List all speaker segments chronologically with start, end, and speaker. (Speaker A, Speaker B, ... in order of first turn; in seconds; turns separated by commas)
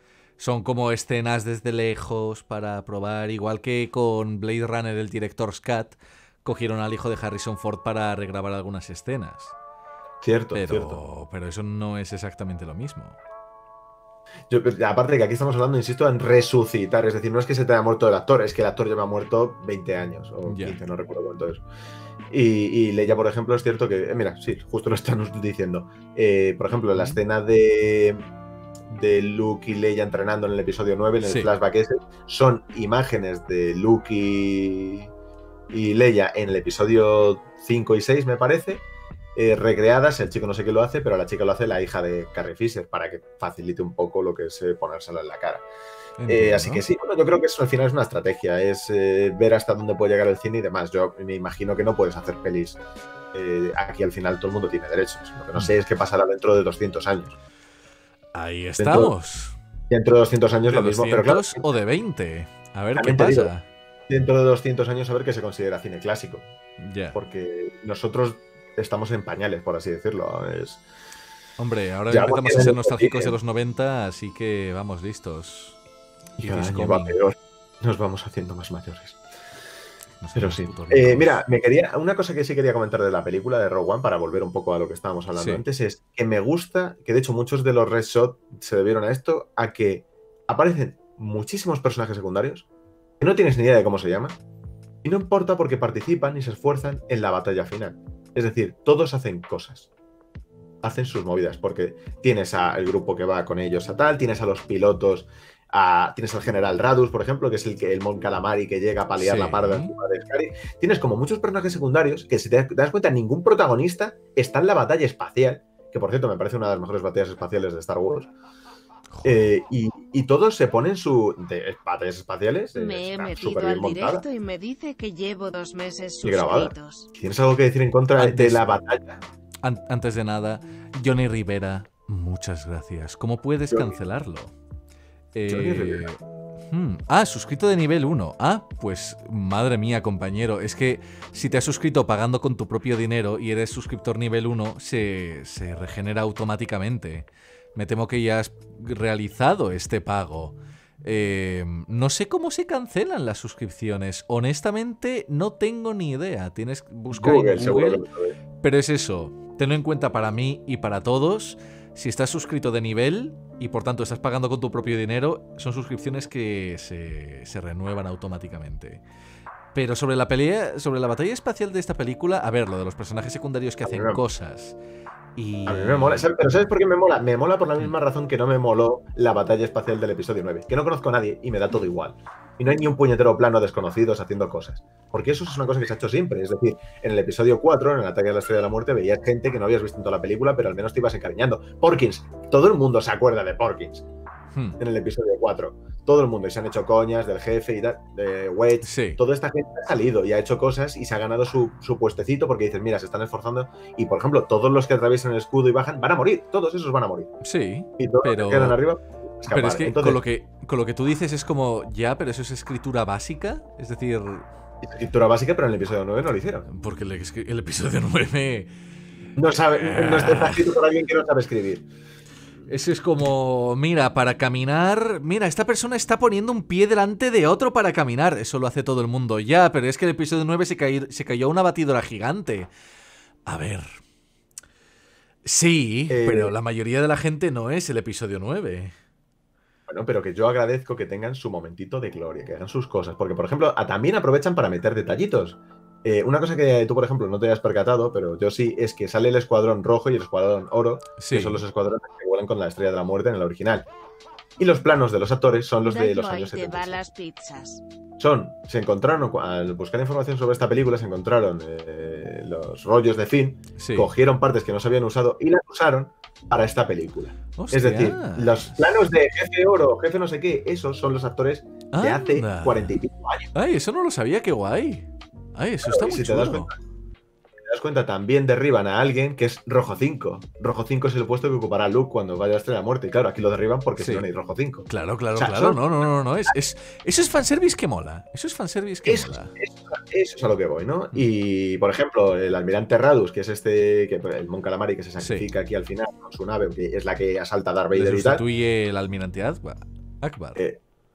Speaker A: 0.4-9.5, Speaker B: 10.2-11.0, Speaker A: 10.5-13.2, Speaker B: 14.5-21.6, Speaker A: 20.4-20.8, Speaker B: 22.3-28.2, Speaker A: 26.9-27.2, Speaker B: 28.9-35.1, Speaker A: 31.2-31.5, Speaker B: 35.7-38.8, Speaker B: 39.3-45.6, Speaker A: 46.2-46.8, Speaker B: 46.3-52.8, Speaker B: 53.3-57.3, Speaker A: 58.3-59.5, Speaker B: 58.8-59.1, Speaker B: 59.9-61.6, Speaker A: 60.7-63.7, Speaker B: 63.0-63.5, Speaker B: 64.1-66.5, Speaker A: 66.8-67.2, Speaker B: 67.1-70.8, Speaker A: 71.6-75.8, Speaker B: 72.1-73.3, Speaker B: 76.4-79.2, Speaker A: 76.4-77.2, Speaker A: 80.2-81.4, Speaker B: 80.3-92.7, Speaker A: 85.3-85.6, Speaker B: 93.2-94.4, Speaker B: 95.0-99.9, Speaker B: 100.8-118.3, Speaker A: 109.2-109.9, Speaker A: 119.1-119.5, Speaker B: 119.2-124.2, Speaker C: 122.7-127.1, Speaker B: 126.2-129.2, Speaker A: 128.2-128.7, Speaker A: 129.6-134.5, Speaker A: 135.3-158.0, Speaker B: 135.5-136.1, Speaker B: 157.1-158.3, Speaker A: 158.6-169.0, Speaker A: 169.7-174.8, Speaker B: 173.8-174.2, Speaker A: 175.3-176.3, Speaker B: 175.7-194.0, Speaker A: 194.5-194.8, Speaker B: 194.8-207.3, Speaker A: 198.8-199.2, Speaker A: 207.4-208.8, Speaker B: 208.0-210.2, Speaker A: 209.5-214.5, Speaker B: 214.8-216.7, Speaker A: 216.7-218.7, Speaker B: 219.3-221.8, Speaker A: 219.7-220.7, Speaker A: 222.7-232.7, Speaker A: 233.4-233.9, Speaker A: 235.4-238.9, Speaker B: 236.1-236.5, Speaker B: 239.9-253.9, Speaker A: 251.2-251.6, Speaker B: 254.6-257.0, Speaker C: 255.8-257.8, Speaker B: 258.2-273.5, Speaker A: 263.8-264.1, Speaker A: 267.6-268.8, Speaker A: 271.9-272.9, Speaker A: 273.5-276.7, Speaker B: 275.8-276.8, Speaker B: 277.6-285.8, Speaker A: 284.0-284.2, Speaker A: 284.9-289.5, Speaker B: 289.0-298.4, Speaker A: 295.2-295.5, Speaker A: 297.9-300.6